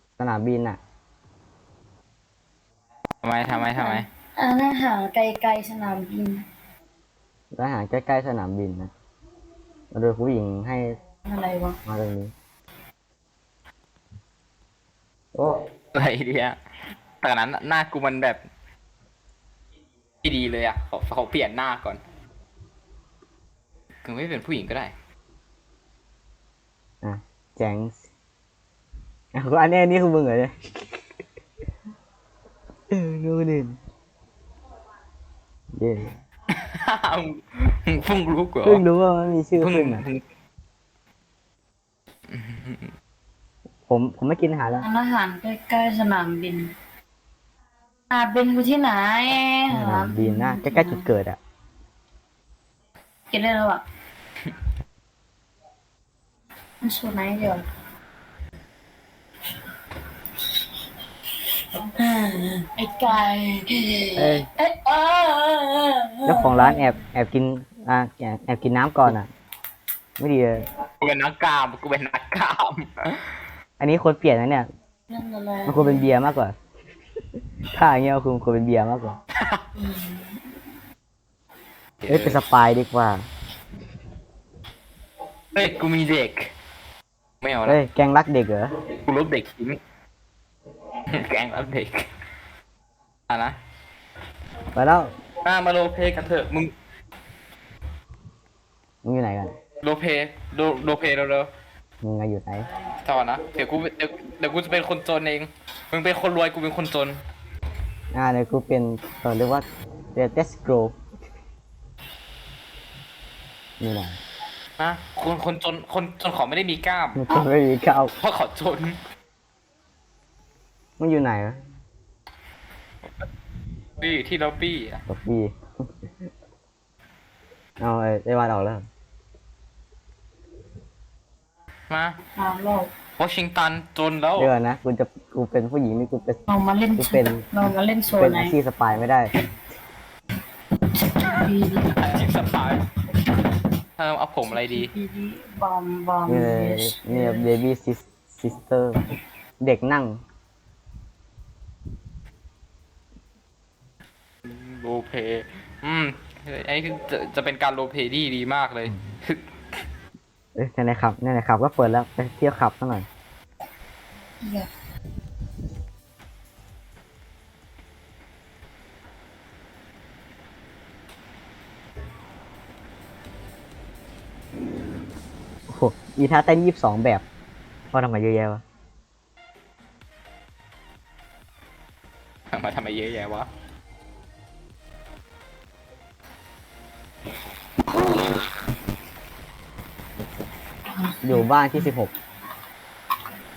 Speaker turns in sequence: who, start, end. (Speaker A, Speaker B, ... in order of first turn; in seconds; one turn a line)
Speaker A: 0.2-0.8
Speaker B: 3.2-4.1
Speaker C: 3.5-6.4
Speaker A: 7.5-8.9
Speaker A: 9.9-11.0
Speaker C: 11.2-11.8
Speaker A: 11.8-12.3
Speaker A: 15.3-15.6
Speaker B: 15.9-16.6
Speaker B: 17.2-18.4
Speaker B: 20.2-22.0
Speaker B: 24.0-24.9
Speaker A: 27.0-28.0
Speaker A: 29.3-31.0
Speaker A: 32.9-33.8
Speaker A: 35.7-36.1
Speaker B: 36.5-38.8
Speaker A: 38.6-40.0
Speaker B: 39.6-40.2
Speaker B: 42.3-42.9
Speaker A: 43.9-44.9
Speaker C: 44.8-46.7
Speaker C: 48.1-51.1
Speaker A: 49.7-51.4
Speaker C: 53.3-53.8
Speaker C: 56.8-57.7
Speaker C: 61.7-66.9
Speaker A: 64.2-64.5
Speaker A: 66.2-69.3
Speaker A: 70.2-70.6
Speaker B: 71.0-73.4
Speaker A: 73.8-74.7
Speaker C: 75.1-76.0
Speaker A: 75.7-76.5
Speaker A: 77.7-79.2
Speaker B: 79.3-79.7
Speaker C: 79.8-80.3
Speaker B: 82.0-82.4
Speaker A: 82.1-83.2
Speaker B: 85.5-86.5
Speaker B: 87.4-87.8
Speaker A: 87.7-88.7
Speaker B: 88.9-89.8
Speaker B: 91.1-92.1
Speaker B: 93.3-93.6
Speaker A: 94.7-95.1
Speaker B: 95.4-96.7
Speaker A: 99.0-99.5
Speaker B: 99.8-101.5
Speaker A: 102.0-102.7
Speaker B: 103.0-107.2
Speaker A: 108.1-111.0
Speaker A: 113.8-114.2
Speaker B: 114.8-117.2
Speaker A: 117.1-118.1
Speaker B: 118.2-119.0
Speaker A: 121.0-121.6
Speaker B: 124.0-125.0
Speaker A: 125.1-125.9
Speaker A: 127.8-128.8
Speaker B: 131.9-132.2
Speaker C: 132.3-132.9
Speaker B: 133.2-134.5
Speaker A: 134.4-136.4
Speaker C: 136.5-138.6
Speaker A: 137.0-137.4
Speaker A: 138.2-139.3
Speaker C: 140.9-142.0
Speaker B: 141.9-142.9
Speaker B: 144.0-144.9
Speaker C: 144.5-147.5
Speaker A: 146.2-149.0
Speaker A: 149.6-150.2
Speaker B: 154.4-159.5
Speaker A: 160.6-163.1
Speaker C: 164.4-164.7
Speaker A: 175.7-177.2
Speaker A: 177.9-178.6
Speaker B: 182.5-183.5
Speaker C: 190.9-191.4
Speaker A: 191.2-192.1